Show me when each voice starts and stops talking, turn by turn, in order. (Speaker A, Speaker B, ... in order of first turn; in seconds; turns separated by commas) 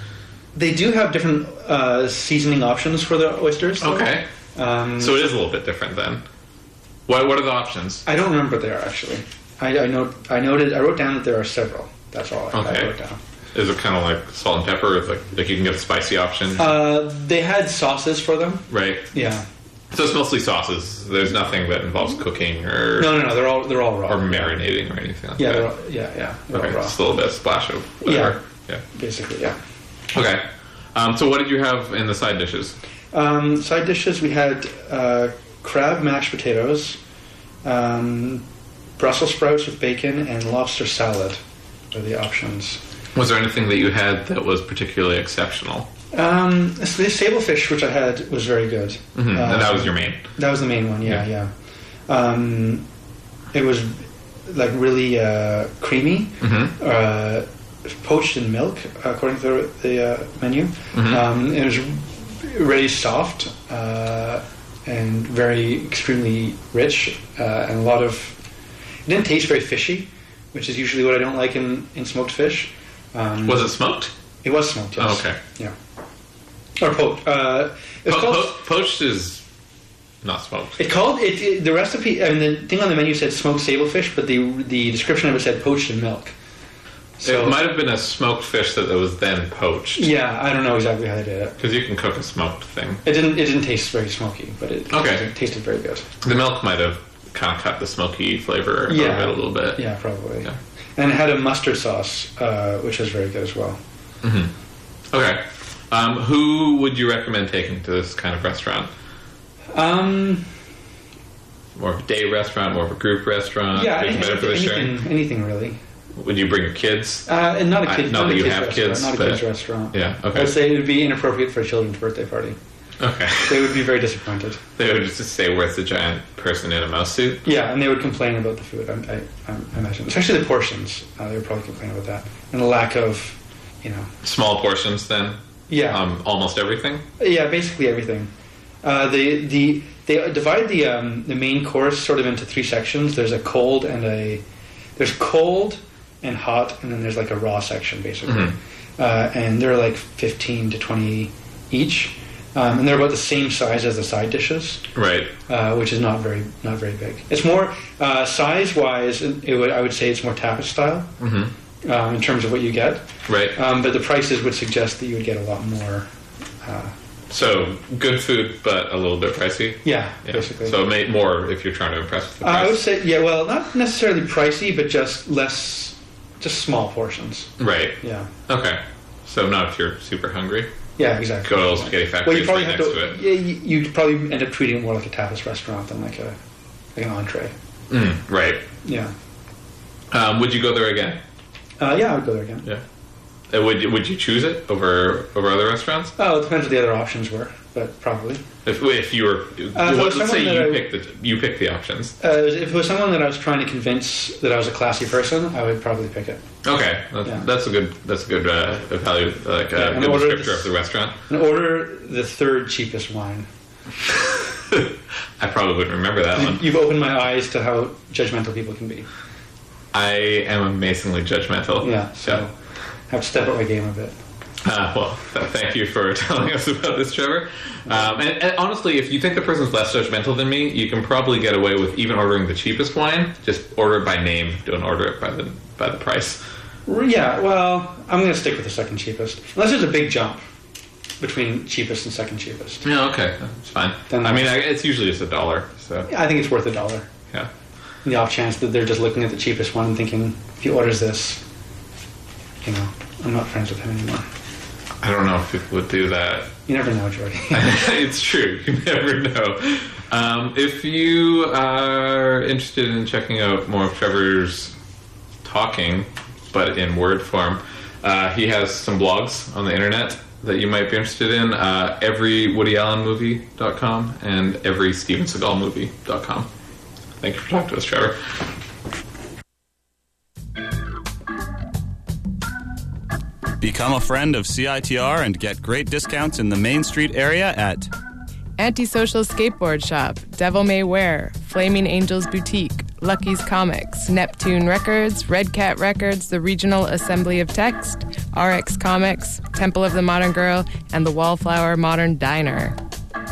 Speaker A: 0.5-5.3, Speaker B: 3.8-4.3, Speaker B: 5.0-6.2, Speaker B: 7.1-8.0, Speaker A: 8.1-13.2, Speaker B: 12.5-12.9, Speaker B: 13.5-16.8, Speaker A: 16.6-19.4, Speaker B: 18.7-19.1, Speaker B: 19.9-23.3, Speaker A: 23.0-24.6, Speaker B: 24.1-25.7, Speaker A: 25.4-27.2, Speaker B: 26.5-28.8, Speaker A: 28.0-29.6, Speaker B: 30.1-32.8, Speaker A: 33.1-37.0, Speaker A: 37.6-38.5, Speaker A: 39.0-42.8, Speaker B: 43.1-45.9, Speaker A: 46.1-51.5, Speaker B: 49.1-50.3, Speaker A: 52.0-52.9, Speaker A: 53.5-68.4, Speaker B: 56.4-56.7, Speaker B: 60.9-61.2, Speaker A: 69.0-73.9, Speaker B: 73.4-74.1, Speaker A: 74.4-75.7, Speaker B: 75.0-75.4, Speaker A: 76.8-78.7, Speaker B: 78.0-79.4, Speaker B: 80.2-80.9, Speaker A: 80.8-86.3, Speaker A: 87.2-87.7, Speaker B: 87.2-90.1, Speaker A: 90.0-91.6, Speaker B: 91.6-93.0, Speaker A: 93.0-96.1, Speaker B: 94.9-95.2, Speaker B: 96.2-99.8, Speaker A: 98.9-103.8, Speaker B: 104.2-104.5, Speaker B: 105.1-108.9, Speaker A: 109.7-110.5, Speaker B: 111.7-114.9, Speaker A: 113.7-115.8, Speaker B: 116.1-117.3, Speaker A: 117.2-122.6, Speaker B: 117.8-120.5, Speaker B: 123.0-123.8, Speaker A: 123.5-124.6, Speaker B: 124.8-127.4, Speaker A: 127.4-134.1, Speaker B: 134.2-137.0, Speaker A: 135.7-136.0, Speaker A: 137.2-138.3, Speaker A: 138.8-144.4, Speaker A: 145.0-154.9, Speaker B: 148.2-148.5, Speaker B: 154.9-155.3, Speaker A: 155.5-161.1, Speaker B: 161.2-161.5, Speaker A: 161.8-166.1, Speaker B: 163.2-163.5, Speaker A: 166.6-166.9, Speaker B: 167.3-172.8, Speaker A: 169.8-170.8, Speaker A: 172.4-178.3, Speaker B: 177.6-180.7, Speaker A: 181.0-186.4, Speaker B: 181.4-183.2, Speaker A: 186.9-187.5, Speaker B: 187.9-188.7, Speaker A: 188.8-189.1, Speaker B: 190.1-191.2, Speaker A: 191.8-192.7, Speaker B: 193.5-196.1, Speaker A: 196.2-198.5, Speaker B: 198.6-202.2, Speaker A: 199.7-200.9, Speaker A: 202.2-206.4, Speaker B: 206.6-211.2, Speaker A: 209.7-213.5, Speaker B: 214.4-216.6, Speaker A: 216.3-219.1, Speaker B: 219.9-222.4, Speaker A: 221.8-222.6, Speaker A: 223.1-224.2, Speaker B: 224.6-236.4, Speaker A: 236.8-240.4, Speaker A: 241.2-242.8, Speaker B: 242.8-246.1, Speaker A: 244.1-244.7, Speaker A: 246.1-247.1, Speaker A: 248.0-251.4, Speaker A: 252.6-254.3, Speaker B: 255.0-256.6, Speaker A: 256.7-257.9, Speaker B: 257.5-264.8, Speaker B: 265.4-276.5, Speaker B: 277.2-278.2, Speaker C: 283.6-287.9, Speaker D: 288.6-302.8